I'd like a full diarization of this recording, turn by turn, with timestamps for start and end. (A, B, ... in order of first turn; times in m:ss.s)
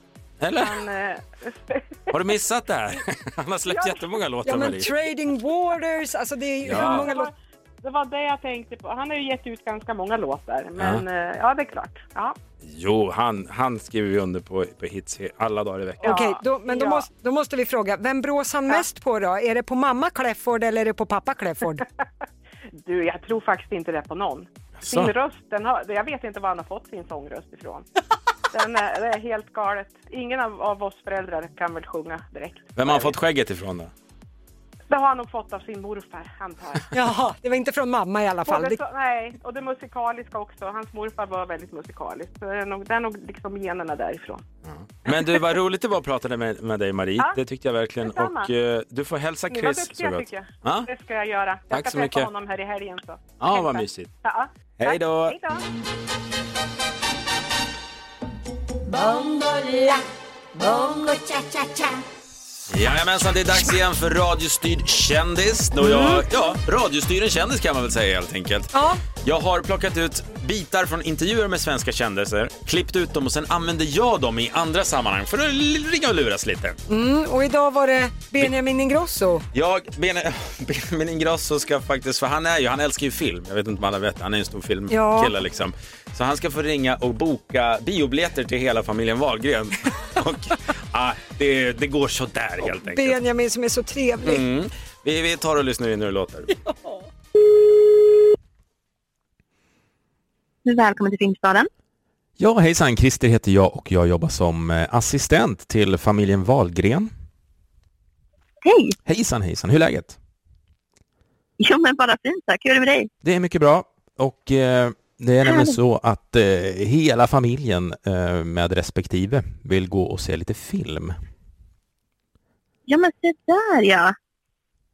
0:00.4-0:00.7 A
0:00.6-0:02.0 B
0:02.1-0:04.9 A
0:03.7-0:04.0 B
0:04.4-0:07.3 C
0:06.6-0:07.1 A
0:06.7-0:12.4 B
0:10.8-0:11.0 A
0:12.6-0:16.2 A
0:16.0-0:21.8 C
0:16.0-0:17.1 B
0:22.8-0:27.9 B
0:24.8-0:25.1 A
0:28.5-0:33.2 B
0:32.8-0:33.9 A
0:34.9-0:36.9 B
0:36.9-0:38.8 C
0:38.4-0:44.4 B
0:44.7-0:50.9 A
0:48.0-0:48.5 B
0:49.5-0:55.6 B
0:51.7-0:52.3 A
0:53.4-0:54.1 A
0:54.8-0:55.4 A
1:02.7-1:08.7 A
1:05.8-1:06.2 C
1:08.7-1:09.0 C
1:09.2-1:16.8 A
1:16.9-1:19.4 C
1:19.5-1:33.2 A
1:24.9-1:25.3 C
1:32.6-1:34.4 C
1:34.2-1:36.5 A
1:36.6-1:37.0 C
1:40.6-1:41.7 D
1:42.4-1:47.1 E
1:48.6-1:48.9 D
1:49.0-1:50.2 E
1:51.6-1:53.1 D
1:53.2-2:01.2 E
1:55.4-1:55.7 D
2:02.9-2:04.1 D